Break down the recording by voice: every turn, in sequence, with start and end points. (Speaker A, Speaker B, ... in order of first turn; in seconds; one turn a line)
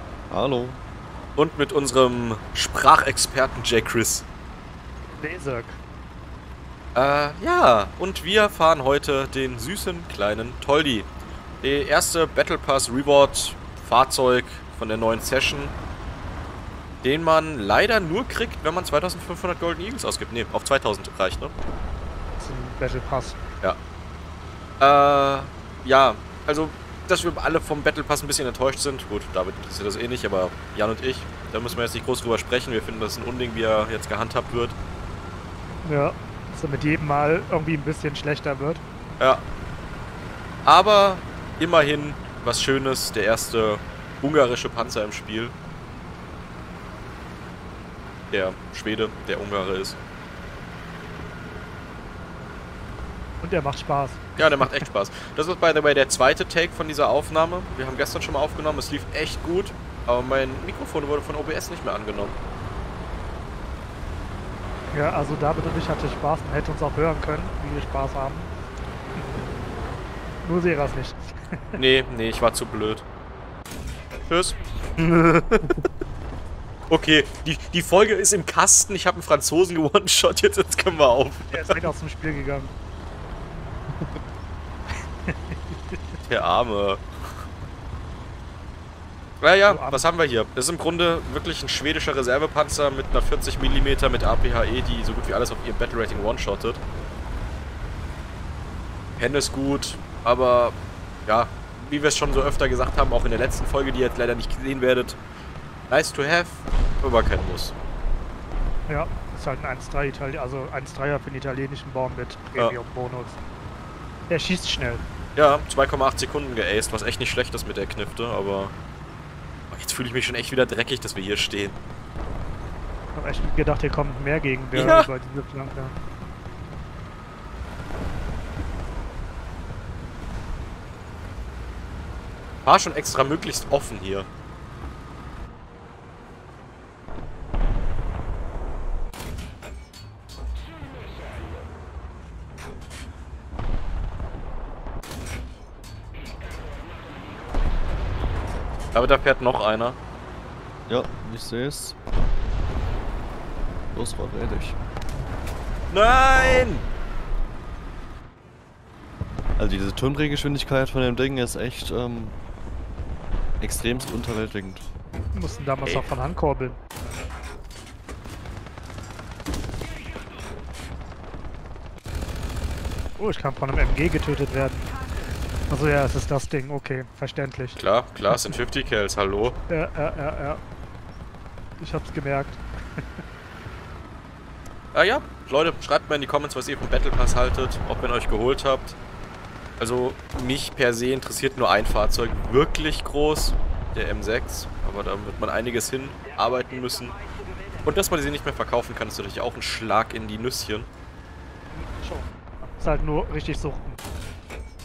Speaker A: 0.3-0.8
Speaker B: 1.4-4.2
Speaker C: 5.2-5.8
Speaker B: 6.9-11.1
Speaker B: 11.6-15.7
Speaker B: 17.0-21.5
Speaker C: 22.4-23.4
Speaker B: 24.8-34.8
Speaker C: 35.8-38.8
Speaker B: 40.6-45.5
Speaker B: 48.3-50.0
Speaker C: 53.4-54.9
Speaker B: 54.4-62.3
Speaker C: 64.9-68.5
Speaker C: 70.4-71.8
Speaker B: 71.7-73.0
Speaker B: 74.2-75.8
Speaker B: 76.9-81.8
Speaker C: 81.5-82.7
Speaker C: 84.9-86.0
Speaker B: 86.2-87.0
Speaker B: 89.4-96.8
Speaker C: 89.7-90.1
Speaker B: 99.2-105.2
Speaker B: 105.9-107.7
Speaker C: 108.9-113.4
Speaker C: 114.3-115.0
Speaker B: 115.3-118.7
Speaker B: 119.7-121.8
Speaker C: 123.1-126.0
Speaker B: 124.7-125.1
Speaker B: 132.6-134.3
Speaker B: 148.9-150.0
Speaker A: 150.9-151.9
Speaker A: 153.9-154.8
Speaker B: 155.9-156.8
Speaker A: 159.6-162.4
Speaker A: 163.6-164.8
Speaker C: 165.3-166.8
Speaker C: 173.2-174.9
Speaker C: 175.7-178.5
Speaker B: 177.8-179.6
Speaker C: 179.7-180.6
Speaker C: 181.8-183.2
Speaker B: 184.9-188.9
Speaker B: 189.8-197.1
Speaker B: 197.8-200.9
Speaker C: 201.7-204.0